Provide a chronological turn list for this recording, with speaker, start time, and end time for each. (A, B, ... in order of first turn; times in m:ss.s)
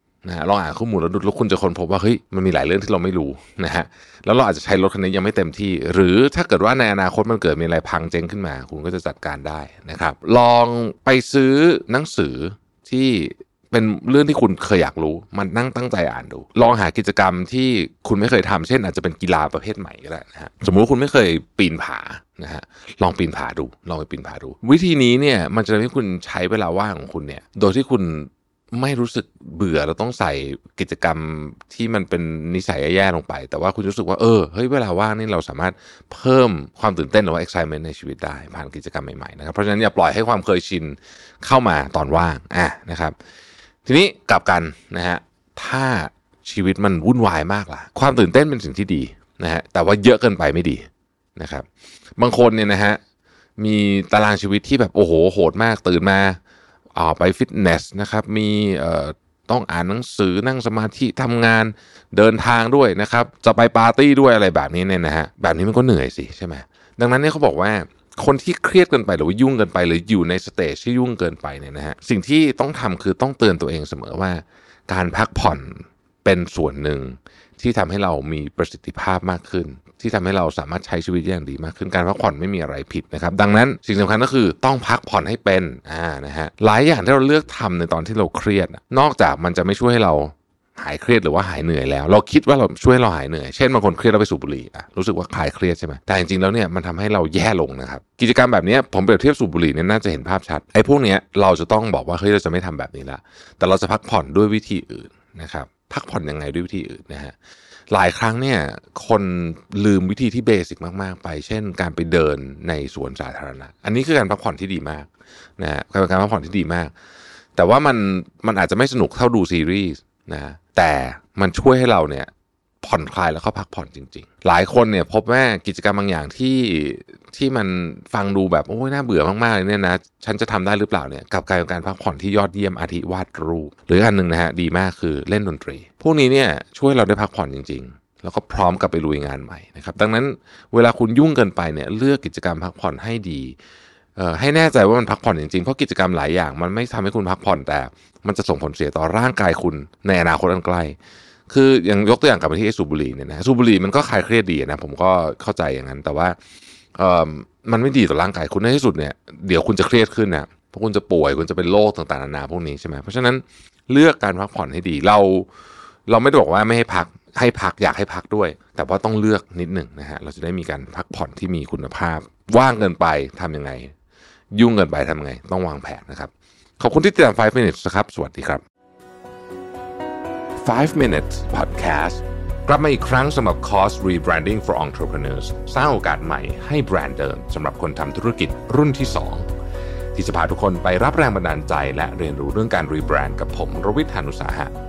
0:00.2-0:43.1 A
0:43.8-0:50.8 A
0:51.4-0:51.6 A
0:52.2-0:53.0 A
0:53.6-0:56.4 A
0:56.9-1:47.3 A
1:47.9-1:56.9 A
1:57.6-2:02.3 A
2:02.8-2:23.6 A
2:24.2-2:31.0 A
2:31.5-2:36.4 A
2:36.9-2:45.5 A
2:46.1-2:53.9 A
2:54.5-2:58.6 A
3:00.6-3:09.4 A
3:10.1-3:14.7 A